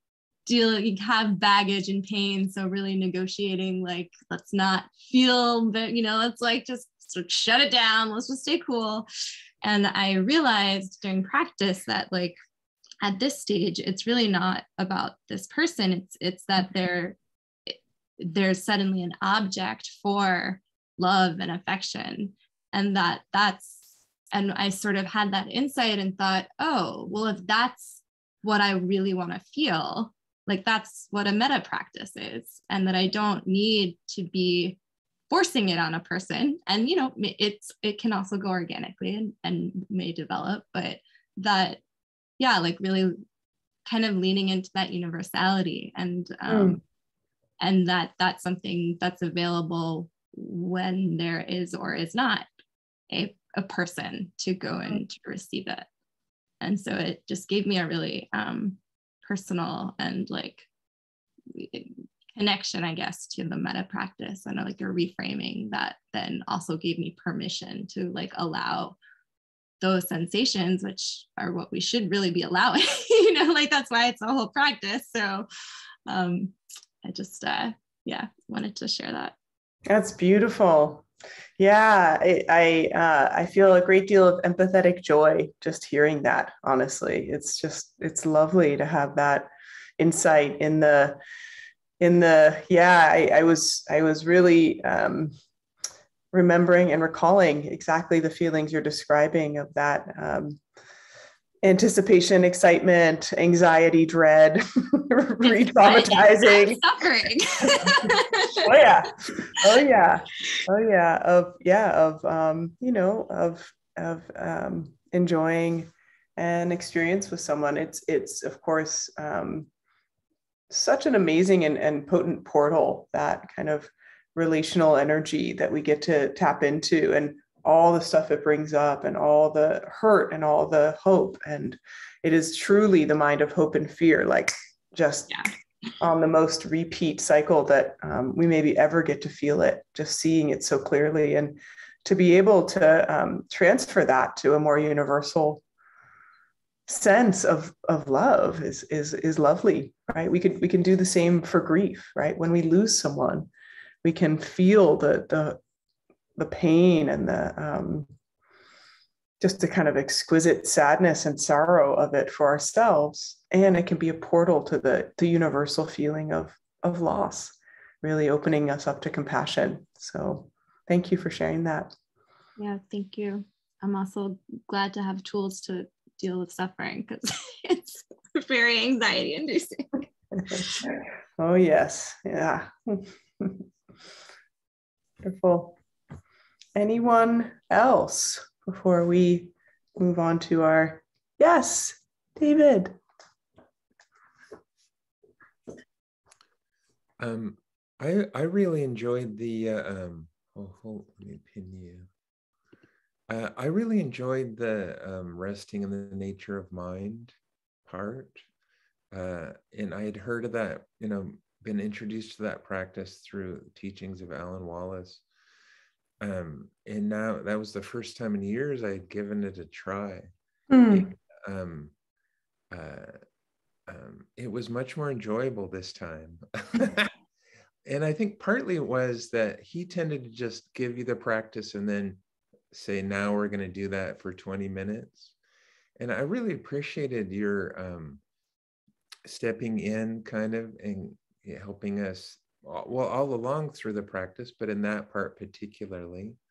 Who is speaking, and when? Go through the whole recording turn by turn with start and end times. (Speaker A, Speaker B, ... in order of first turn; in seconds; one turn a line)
Speaker A: 0.5-9.1
Speaker A: 9.6-12.4
Speaker A: 13.0-17.2
Speaker A: 17.7-34.8
Speaker A: 35.3-41.8
Speaker A: 42.4-43.2
Speaker A: 43.9-46.8
Speaker B: 46.5-46.8
Speaker A: 47.6-52.5
Speaker A: 53.1-55.9
Speaker A: 56.6-60.7
Speaker A: 61.5-69.0
Speaker A: 69.8-75.5
Speaker A: 76.1-79.3
Speaker B: 79.9-81.0
Speaker B: 81.6-91.2
Speaker B: 92.0-95.3
Speaker B: 96.3-100.6
Speaker B: 101.6-106.8
Speaker A: 105.8-108.6
Speaker B: 107.8-119.7
Speaker B: 120.7-135.4
Speaker B: 136.0-145.6
Speaker B: 146.9-153.5
Speaker B: 154.0-155.6
Speaker B: 156.4-158.1
Speaker B: 159.4-171.9
Speaker A: 172.6-180.5
Speaker B: 181.4-183.6
Speaker B: 185.2-185.8
Speaker B: 186.8-192.9
Speaker C: 197.2-202.1
Speaker C: 203.3-208.4
Speaker C: 209.1-215.2
Speaker C: 216.2-220.3
Speaker B: 220.7-221.1
Speaker C: 220.9-221.9
Speaker C: 222.7-223.2
Speaker C: 223.9-227.1
Speaker C: 227.8-232.2
Speaker C: 232.7-235.3
Speaker C: 236.0-238.2
Speaker C: 239.3-246.4